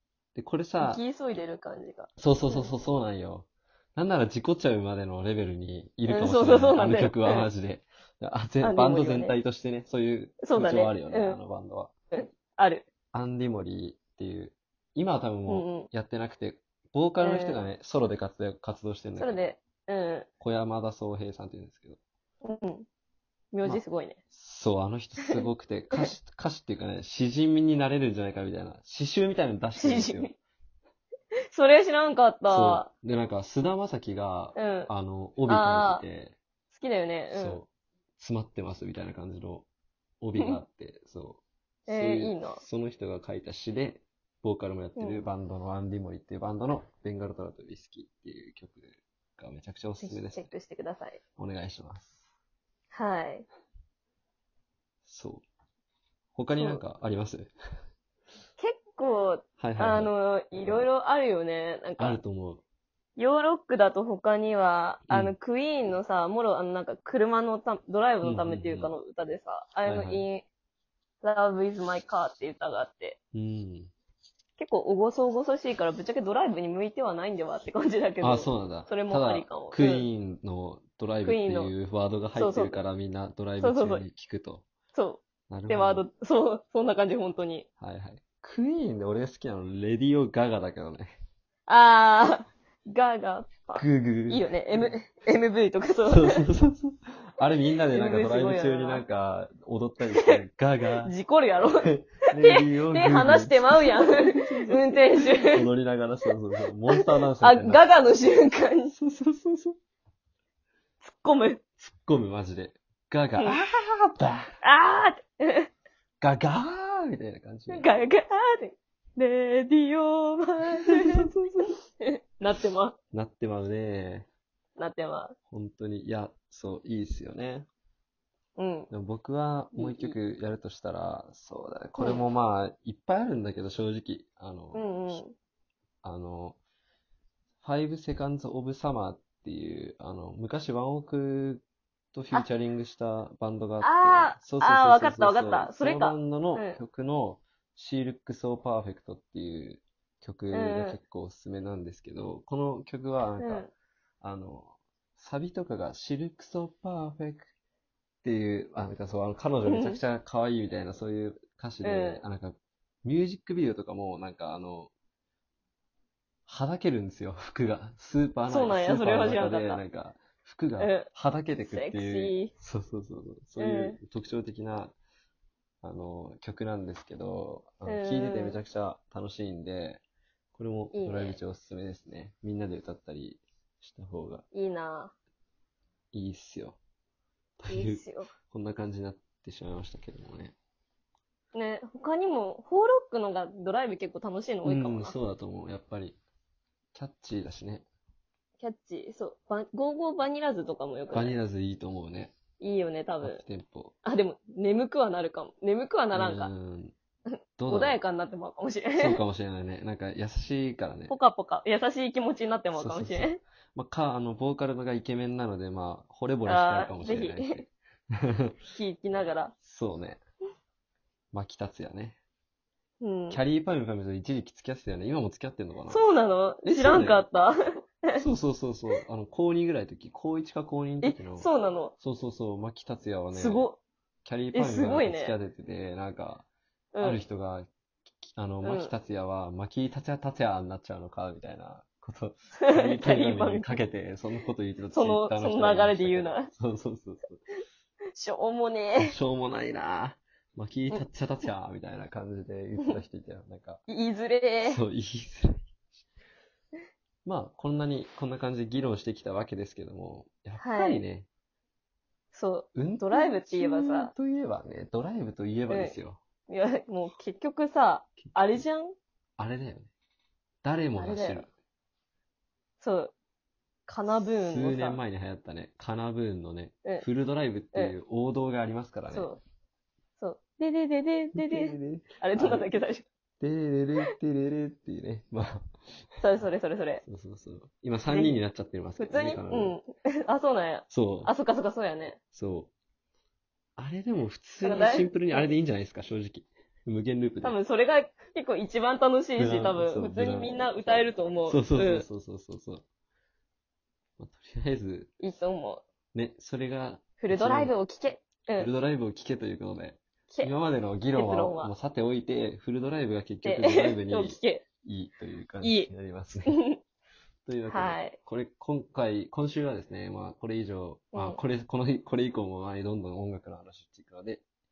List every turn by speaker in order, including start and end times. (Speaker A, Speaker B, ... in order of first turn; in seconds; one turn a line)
Speaker A: 0.3-1.0
Speaker B: 0.8-2.7
Speaker A: 2.2-11.9
Speaker B: 6.1-7.5
Speaker B: 8.6-9.4
Speaker B: 10.4-11.4
Speaker B: 12.1-12.8
Speaker A: 13.1-19.5
Speaker B: 15.5-15.9
Speaker B: 17.2-17.6
Speaker B: 19.2-20.3
Speaker A: 20.4-22.0
Speaker B: 22.4-22.9
Speaker B: 23.5-24.2
Speaker A: 23.6-30.3
Speaker B: 29.8-30.3
Speaker B: 31.5-32.9
Speaker A: 32.5-36.4
Speaker B: 34.5-34.9
Speaker B: 35.5-36.0
Speaker B: 36.7-37.6
Speaker A: 37.3-39.7
Speaker A: 40.2-50.5
Speaker B: 41.9-42.6
Speaker B: 45.0-45.2
Speaker B: 50.0-51.2
Speaker A: 51.4-52.2
Speaker B: 52.9-53.5
Speaker A: 55.0-55.4
Speaker A: 56.3-57.5
Speaker B: 56.5-56.8
Speaker B: 58.6-62.2
Speaker A: 59.6-60.9
Speaker A: 62.0-62.6
Speaker B: 63.2-70.4
Speaker A: 65.1-65.3
Speaker A: 68.2-68.9
Speaker A: 69.8-70.2
Speaker B: 71.2-73.2
Speaker A: 73.3-73.9
Speaker B: 74.6-80.1
Speaker A: 78.2-84.7
Speaker B: 81.2-81.7
Speaker B: 82.3-82.8
Speaker B: 83.6-84.0
Speaker B: 84.9-87.7
Speaker A: 85.5-86.0
Speaker A: 87.8-91.1
Speaker B: 91.7-96.4
Speaker A: 93.7-94.9
Speaker A: 96.0-101.1
Speaker B: 97.9-99.0
Speaker B: 100.0-100.4
Speaker B: 101.0-105.7
Speaker A: 101.8-107.8
Speaker B: 106.9-108.9
Speaker A: 108.9-109.8
Speaker B: 111.0-111.6
Speaker A: 111.8-114.5
Speaker B: 114.6-115.7
Speaker A: 116.2-117.9
Speaker B: 117.7-123.0
Speaker A: 120.9-121.7
Speaker A: 123.1-124.3
Speaker B: 124.8-125.3
Speaker A: 125.5-127.7
Speaker B: 128.6-128.9
Speaker A: 128.9-135.2
Speaker B: 129.7-130.2
Speaker B: 134.7-135.3
Speaker A: 136.0-136.6
Speaker A: 137.6-153.7
Speaker B: 143.8-146.8
Speaker B: 150.5-151.0
Speaker B: 153.4-153.7
Speaker A: 154.2-157.5
Speaker A: 158.2-164.9
Speaker B: 159.6-160.0
Speaker B: 161.8-162.2
Speaker A: 166.5-174.9
Speaker B: 168.5-169.8
Speaker B: 170.8-171.1
Speaker B: 171.6-172.5
Speaker B: 173.6-174.0
Speaker A: 175.8-180.0
Speaker B: 177.8-178.6
Speaker A: 180.5-184.4
Speaker B: 180.9-181.4
Speaker B: 184.5-185.1
Speaker A: 186.1-186.8
Speaker A: 187.6-190.5
Speaker B: 187.7-188.3
Speaker B: 191.5-195.2
Speaker A: 194.6-196.2
Speaker A: 196.9-197.8
Speaker B: 198.6-201.3
Speaker A: 201.1-202.3
Speaker B: 202.6-203.4
Speaker A: 203.2-203.9
Speaker B: 204.0-206.5
Speaker A: 206.1-206.9
Speaker B: 207.3-209.2
Speaker A: 207.6-208.0
Speaker A: 209.0-211.1
Speaker B: 211.1-213.4
Speaker A: 212.7-218.5
Speaker B: 216.4-217.6
Speaker B: 218.7-219.5
Speaker A: 219.6-220.2
Speaker A: 221.3-222.2
Speaker B: 223.0-223.4
Speaker A: 223.3-226.1
Speaker B: 225.9-228.2
Speaker A: 226.6-227.2
Speaker A: 228.1-233.7
Speaker B: 231.0-231.9
Speaker B: 233.3-233.8
Speaker A: 234.2-236.5
Speaker B: 234.5-235.3
Speaker B: 236.9-237.2
Speaker A: 237.0-237.7
Speaker A: 238.2-247.4
Speaker B: 238.6-238.9
Speaker B: 242.6-243.8
Speaker B: 244.9-246.5
Speaker B: 248.1-249.1
Speaker A: 249.0-253.8
Speaker B: 253.9-254.8
Speaker A: 254.6-255.7
Speaker A: 257.2-261.3
Speaker B: 260.6-261.0
Speaker B: 262.3-264.1
Speaker A: 262.7-266.2
Speaker B: 265.7-265.9
Speaker B: 266.5-268.9
Speaker A: 269.4-269.9
Speaker A: 270.6-271.5
Speaker B: 271.0-271.4
Speaker B: 272.8-273.1
Speaker B: 273.9-275.0
Speaker A: 274.1-279.3
Speaker B: 279.1-279.4
Speaker B: 280.2-283.0
Speaker A: 281.3-282.7
Speaker A: 283.4-286.2
Speaker B: 286.2-287.0
Speaker A: 287.0-289.8
Speaker B: 288.1-288.4
Speaker B: 289.0-292.2
Speaker A: 290.9-291.3
Speaker A: 292.3-292.7
Speaker A: 293.8-297.6
Speaker B: 294.6-295.5
Speaker B: 297.4-302.1
Speaker A: 299.4-302.8
Speaker A: 304.2-305.1
Speaker B: 305.2-305.8
Speaker A: 306.1-307.7
Speaker B: 307.2-308.7
Speaker A: 308.6-316.6
Speaker B: 311.1-311.7
Speaker B: 313.4-314.6
Speaker B: 315.6-315.9
Speaker B: 316.5-316.8
Speaker A: 317.4-324.4
Speaker B: 317.7-318.2
Speaker B: 321.1-321.4